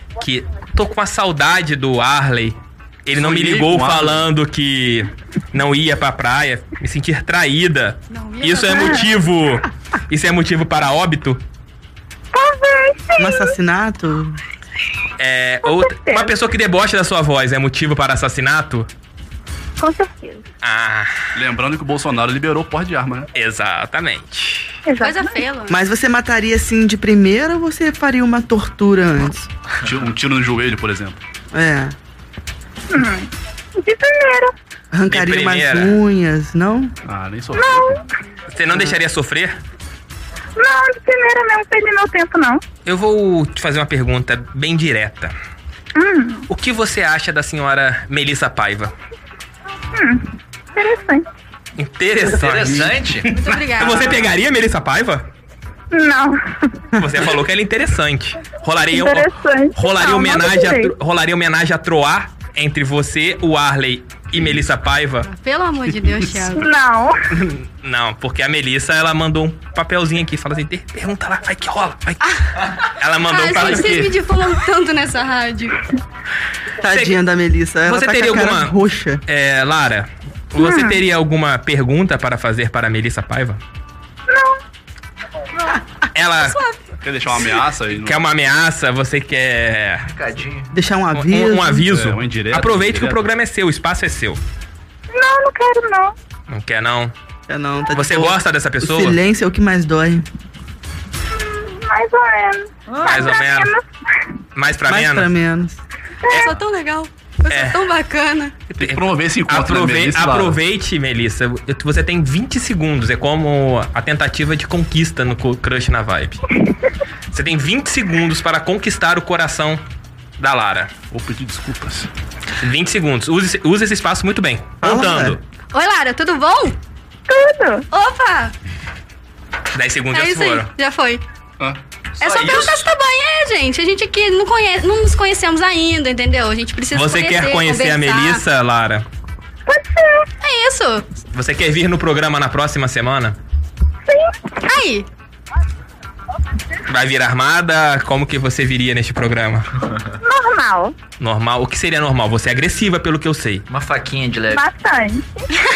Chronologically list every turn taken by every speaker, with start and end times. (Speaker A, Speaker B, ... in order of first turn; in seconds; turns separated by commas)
Speaker A: 0.2-11.4, Speaker B: 3.1-4.2, Speaker C: 8.1-9.1, Speaker D: 8.7-9.0, Speaker D: 12.3-13.5, Speaker E: 13.2-14.3, Speaker A: 15.2-18.9, Speaker D: 15.6-16.3, Speaker D: 19.8-20.4, Speaker A: 20.6-21.2, Speaker B: 21.3-23.3, Speaker A: 23.3-24.8, Speaker D: 24.9-25.4, Speaker C: 25.0-25.8, Speaker E: 25.7-29.5, Speaker B: 29.8-31.2, Speaker E: 31.5-31.9, Speaker D: 32.9-34.5, Speaker E: 34.9-36.9, Speaker A: 35.1-36.0, Speaker B: 37.0-38.0, Speaker D: 37.5-38.0, Speaker A: 38.5-39.6, Speaker D: 40.6-42.6, Speaker A: 42.8-45.3, Speaker D: 45.9-46.5, Speaker A: 46.5-48.9, Speaker D: 49.9-51.2, Speaker A: 51.8-53.0, Speaker F: 52.3-53.4, Speaker C: 53.3-54.2, Speaker A: 53.8-55.3, Speaker D: 55.9-56.4, Speaker A: 57.0-65.3, Speaker D: 58.9-60.9, Speaker C: 65.2-66.7, Speaker D: 66.5-67.1, Speaker A: 67.3-72.2, Speaker A: 73.0-74.1, Speaker C: 73.2-75.7, Speaker E: 76.8-79.2, Speaker A: 76.9-77.2, Speaker A: 77.8-78.8, Speaker A: 79.3-83.6, Speaker D: 80.6-81.0, Speaker A: 86.1-86.6, Speaker C: 86.4-86.8, Speaker B: 87.0-88.2, Speaker A: 87.9-90.1, Speaker F: 90.0-90.7, Speaker E: 90.7-91.8, Speaker A: 91.1-94.4, Speaker B: 91.9-93.2, Speaker D: 95.1-96.1, Speaker A: 96.5-97.1, Speaker E: 97.5-100.2, Speaker A: 97.9-99.2, Speaker D: 101.4-103.8, Speaker A: 103.0-103.7, Speaker A: 104.5-105.3, Speaker E: 104.9-105.8, Speaker C: 106.3-108.5, Speaker A: 107.5-107.8, Speaker B: 108.7-110.6, Speaker A: 108.8-116.4, Speaker A: 117.3-119.8, Speaker A: 120.4-120.9, Speaker B: 121.1-122.1, Speaker A: 122.6-125.4, Speaker E: 124.8-125.3, Speaker C: 125.7-126.8, Speaker D: 127.3-127.8, Speaker C: 127.9-128.5, Speaker A: 129.7-130.7, Speaker C: 130.1-131.2, Speaker C: 132.2-138.4, Speaker F: 132.2-132.8, Speaker A: 136.9-139.1, Speaker D: 139.7-140.2, Speaker C: 140.4-141.1, Speaker A: 141.3-143.4, Speaker C: 144.6-145.1, Speaker A: 146.9-149.7, Speaker D: 150.2-150.9, Speaker A: 151.2-153.6, Speaker F: 153.7-154.6, Speaker D: 154.5-155.4